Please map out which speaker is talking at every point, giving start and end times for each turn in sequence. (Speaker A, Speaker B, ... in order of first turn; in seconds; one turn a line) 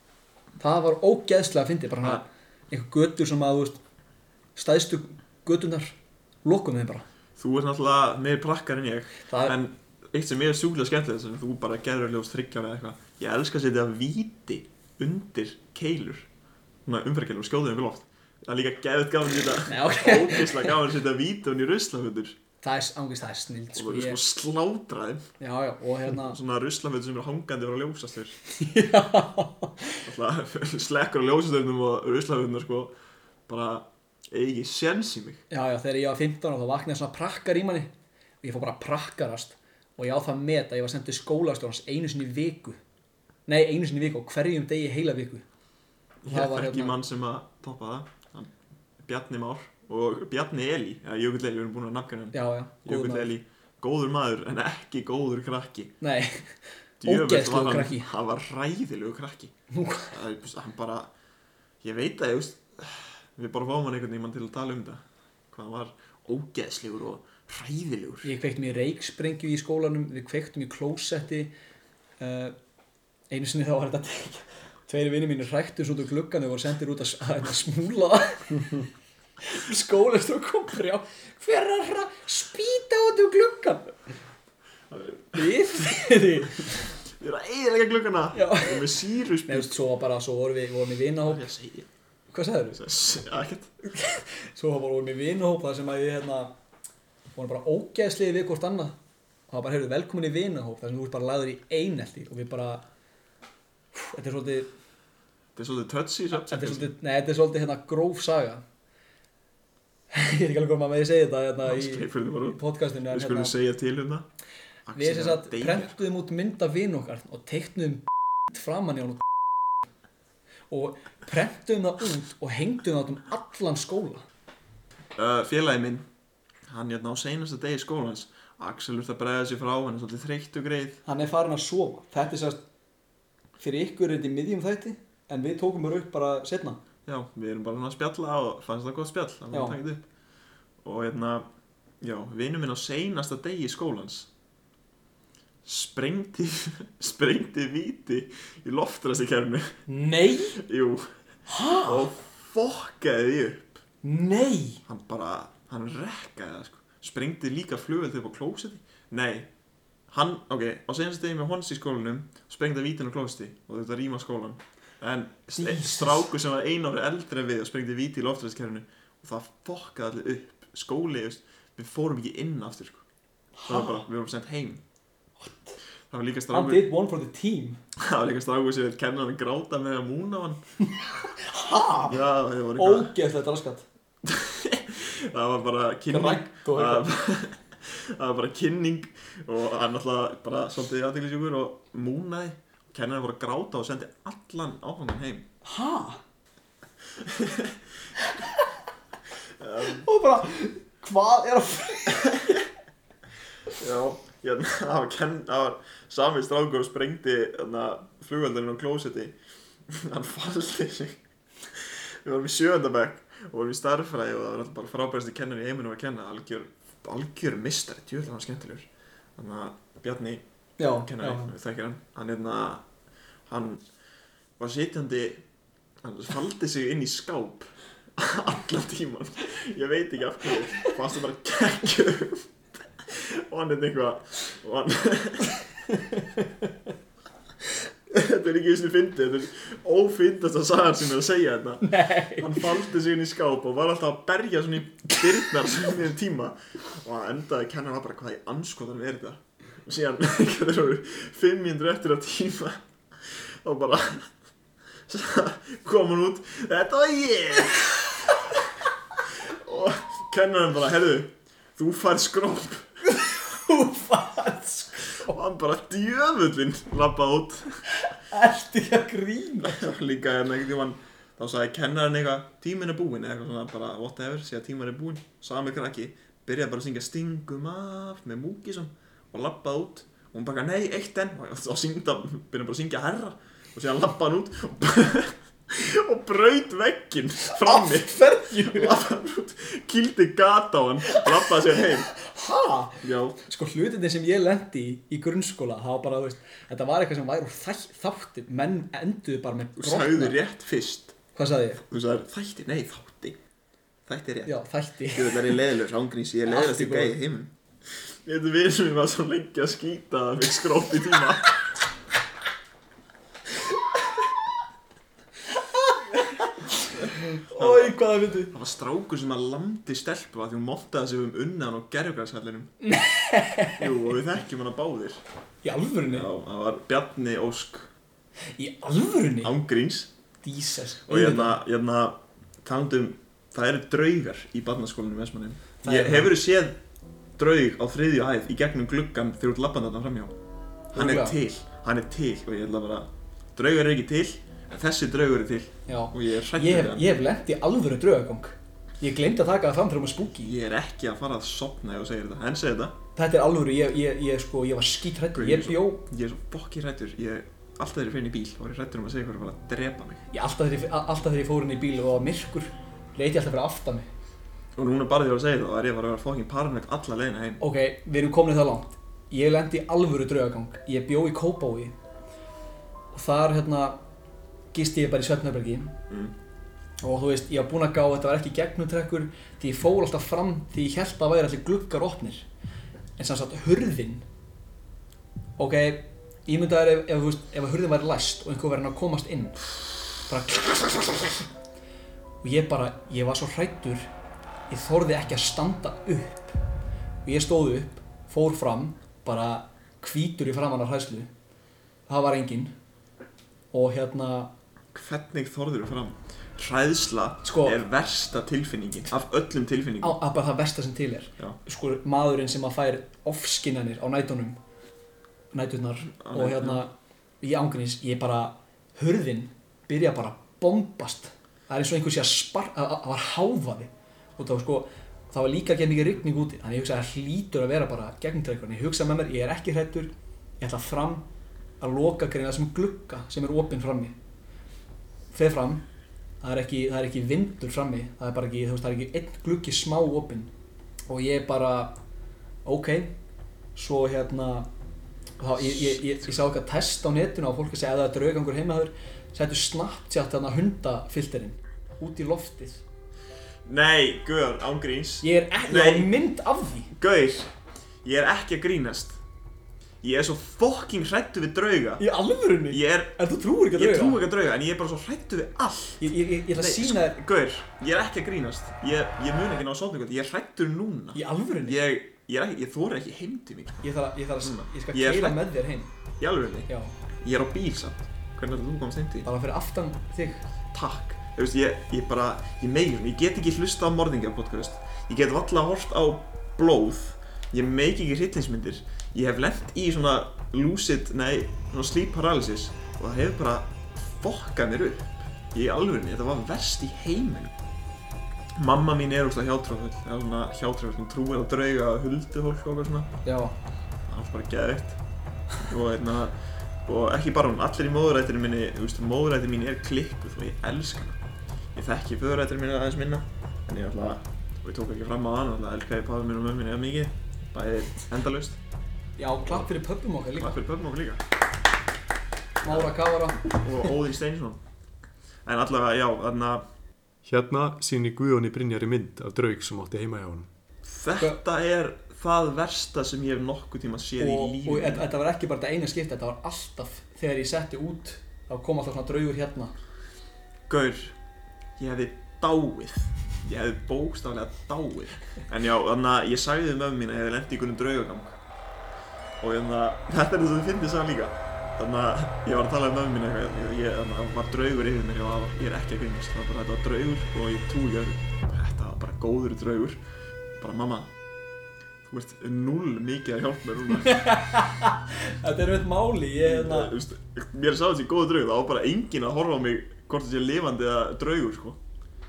Speaker A: 0.6-3.8
Speaker A: 4.6-7.1
Speaker B: 7.4-16.3
Speaker A: 9.3-9.6
Speaker B: 16.9-22.4
Speaker A: 19.7-20.7
Speaker A: 22.6-24.2
Speaker B: 23.8-25.3
Speaker A: 25.4-26.4
Speaker B: 26.1-28.4
Speaker A: 28.5-29.8
Speaker B: 30.0-32.9
Speaker B: 33.5-35.4
Speaker A: 35.5-37.9
Speaker A: 38.4-42.8
Speaker A: 43.5-45.4
Speaker B: 46.2-48.5
Speaker A: 46.3-47.0
Speaker B: 49.0-56.0
Speaker A: 52.3-53.3
Speaker A: 56.0-58.1
Speaker B: 57.0-59.5
Speaker A: 59.7-60.1
Speaker B: 60.1-61.1
Speaker B: 61.8-68.3
Speaker A: 68.2-71.5
Speaker A: 72.2-72.6
Speaker A: 73.3-78.9
Speaker A: 79.5-84.0
Speaker B: 84.9-85.3
Speaker A: 85.3-86.9
Speaker B: 87.2-89.7
Speaker A: 88.3-91.5
Speaker B: 91.2-91.9
Speaker A: 92.3-92.8
Speaker B: 92.7-93.7
Speaker A: 93.9-96.5
Speaker A: 97.3-99.0
Speaker A: 99.5-102.8
Speaker A: 104.0-104.7
Speaker B: 105.6-106.9
Speaker A: 106.3-108.6
Speaker A: 110.1-113.5
Speaker B: 111.6-114.3
Speaker B: 114.9-116.0
Speaker A: 115.0-119.2
Speaker A: 120.7-124.2
Speaker B: 125.2-126.0
Speaker B: 126.7-131.0
Speaker A: 131.1-132.6
Speaker A: 133.6-136.8
Speaker B: 137.1-140.0
Speaker A: 139.5-139.8
Speaker B: 140.8-141.5
Speaker B: 142.0-144.3
Speaker B: 145.7-149.8
Speaker A: 149.9-150.6
Speaker B: 150.6-151.1
Speaker A: 151.5-152.1
Speaker B: 151.8-153.8
Speaker A: 154.0-154.8
Speaker B: 154.9-159.5
Speaker B: 160.1-173.0
Speaker A: 165.5-166.3
Speaker A: 173.6-174.0
Speaker B: 173.7-174.8
Speaker A: 175.4-175.8
Speaker B: 176.1-176.9
Speaker A: 176.5-177.8
Speaker B: 178.0-180.6
Speaker A: 181.4-182.2
Speaker B: 182.1-183.1
Speaker A: 182.8-183.8
Speaker B: 184.2-195.5
Speaker A: 186.1-187.1
Speaker A: 195.7-196.2
Speaker B: 197.2-197.8
Speaker A: 198.2-198.6
Speaker B: 199.6-200.1
Speaker A: 200.0-202.6
Speaker B: 202.1-202.6
Speaker B: 203.8-209.3
Speaker B: 209.9-211.2
Speaker B: 211.7-222.8
Speaker A: 220.8-221.5
Speaker B: 223.5-223.8
Speaker B: 224.6-225.4
Speaker B: 226.0-235.6
Speaker B: 238.1-254.3
Speaker A: 241.8-242.6
Speaker B: 255.1-258.6
Speaker B: 259.5-262.9
Speaker A: 263.1-265.4
Speaker B: 265.3-267.8
Speaker A: 268.3-269.9
Speaker B: 269.6-292.1
Speaker A: 287.6-289.0
Speaker A: 291.1-300.4
Speaker B: 293.0-293.4
Speaker B: 299.8-301.2
Speaker A: 301.4-301.8
Speaker B: 301.9-303.4
Speaker B: 304.1-307.5
Speaker A: 304.5-305.5
Speaker A: 306.5-307.2
Speaker B: 308.0-311.6
Speaker A: 315.6-318.5
Speaker B: 317.0-322.7
Speaker A: 322.8-323.9
Speaker B: 323.8-325.2
Speaker A: 325.6-326.3
Speaker B: 326.1-327.9
Speaker A: 328.6-329.5
Speaker B: 329.4-330.1
Speaker A: 330.4-331.6
Speaker B: 331.1-336.8
Speaker A: 335.8-336.4
Speaker B: 337.4-340.3
Speaker B: 340.9-347.0
Speaker A: 340.9-341.4
Speaker A: 345.9-350.5
Speaker B: 350.4-353.0
Speaker A: 353.2-356.0
Speaker B: 355.4-360.2
Speaker A: 360.3-364.1
Speaker B: 364.8-367.6
Speaker A: 367.6-371.9
Speaker A: 373.1-374.0
Speaker A: 374.7-375.9
Speaker A: 377.0-382.5
Speaker A: 383.2-384.2
Speaker A: 385.6-389.6
Speaker A: 390.3-391.4
Speaker A: 392.4-394.1
Speaker A: 394.7-396.6
Speaker A: 397.2-401.3
Speaker A: 402.1-402.7
Speaker A: 403.7-404.5
Speaker B: 404.9-410.2
Speaker A: 407.4-407.8
Speaker A: 410.0-414.6
Speaker A: 415.5-431.2
Speaker B: 416.2-416.9
Speaker A: 431.8-434.1
Speaker A: 435.3-435.8
Speaker A: 436.4-440.5
Speaker A: 441.1-442.0
Speaker A: 442.6-443.1
Speaker A: 443.8-444.7
Speaker A: 445.4-452.8
Speaker B: 445.8-446.2
Speaker B: 453.6-456.1
Speaker A: 455.2-456.9
Speaker B: 456.9-457.5
Speaker B: 458.0-459.2
Speaker B: 460.0-462.0
Speaker A: 462.0-464.2
Speaker B: 462.7-463.2
Speaker B: 463.7-473.8
Speaker A: 466.0-467.2
Speaker A: 471.1-471.8
Speaker A: 473.8-475.9
Speaker B: 474.4-475.4
Speaker B: 476.2-476.7
Speaker A: 476.7-476.9
Speaker B: 477.2-479.3
Speaker A: 479.2-480.4
Speaker B: 480.7-497.5
Speaker B: 498.6-503.1
Speaker A: 503.2-503.6
Speaker B: 504.1-505.0
Speaker B: 505.6-506.4
Speaker B: 506.9-511.2
Speaker B: 511.8-518.6
Speaker A: 519.2-520.5
Speaker B: 520.4-521.2
Speaker A: 522.6-523.6
Speaker B: 522.6-524.6
Speaker B: 525.5-526.6
Speaker C: 527.2-530.5
Speaker B: 530.9-535.1
Speaker A: 534.2-539.7
Speaker B: 540.7-541.1
Speaker B: 541.8-548.4
Speaker B: 549.4-560.0
Speaker B: 560.6-561.1
Speaker B: 562.1-564.3
Speaker A: 564.0-566.9
Speaker B: 566.4-571.8